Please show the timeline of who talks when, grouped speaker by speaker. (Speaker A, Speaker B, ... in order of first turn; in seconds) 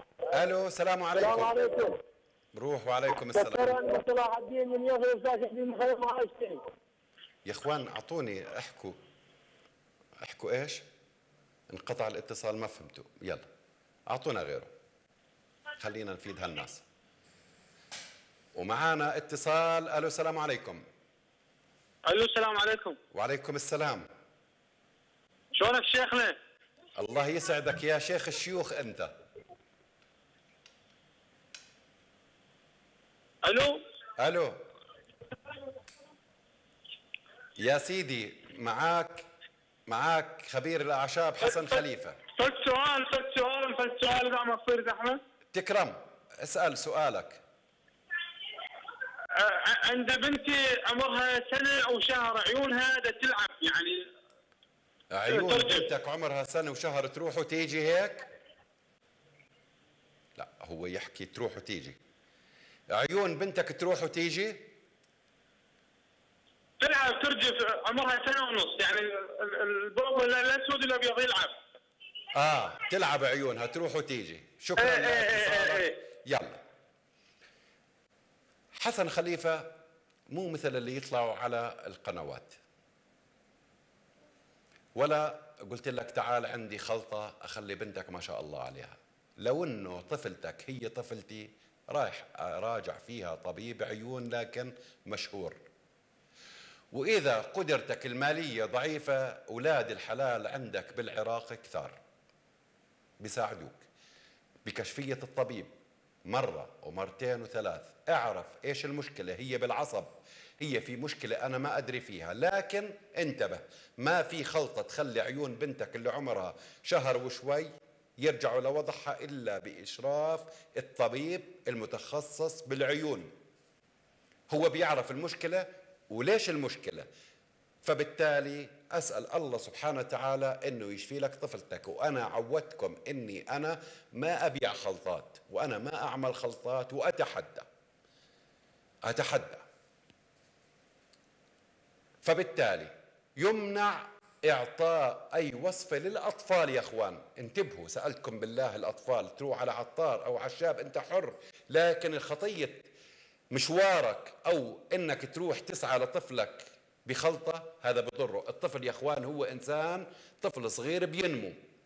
Speaker A: 0.3-1.5, 2.5-3.8, 7.5-9.0, 10.2-10.8, 11.7-13.5, 14.1-14.7, 15.8-16.8, 18.6-20.8, 23.1-24.1, 27.0-29.1, 34.2-34.6, 37.6-39.2, 39.9-42.2, 45.5-47.4, 55.1-58.2, 60.4-62.0, 62.9-64.7, 72.3-76.6, 78.8-79.7, 80.3-82.6, 85.0-95.6, 96.9-101.9, 103.2-103.8, 104.6-105.7, 106.3-110.1, 110.6-123.3, 124.5-127.0, 127.8-137.7, 139.1-139.6, 142.2-152.9, 153.5-161.6
Speaker B: 1.3-1.8, 3.9-6.6
Speaker C: 22.1-22.9, 25.6-26.3, 33.4-33.8, 42.4-45.2, 49.4-54.0, 55.3-55.8, 66.8-71.5, 74.8-75.9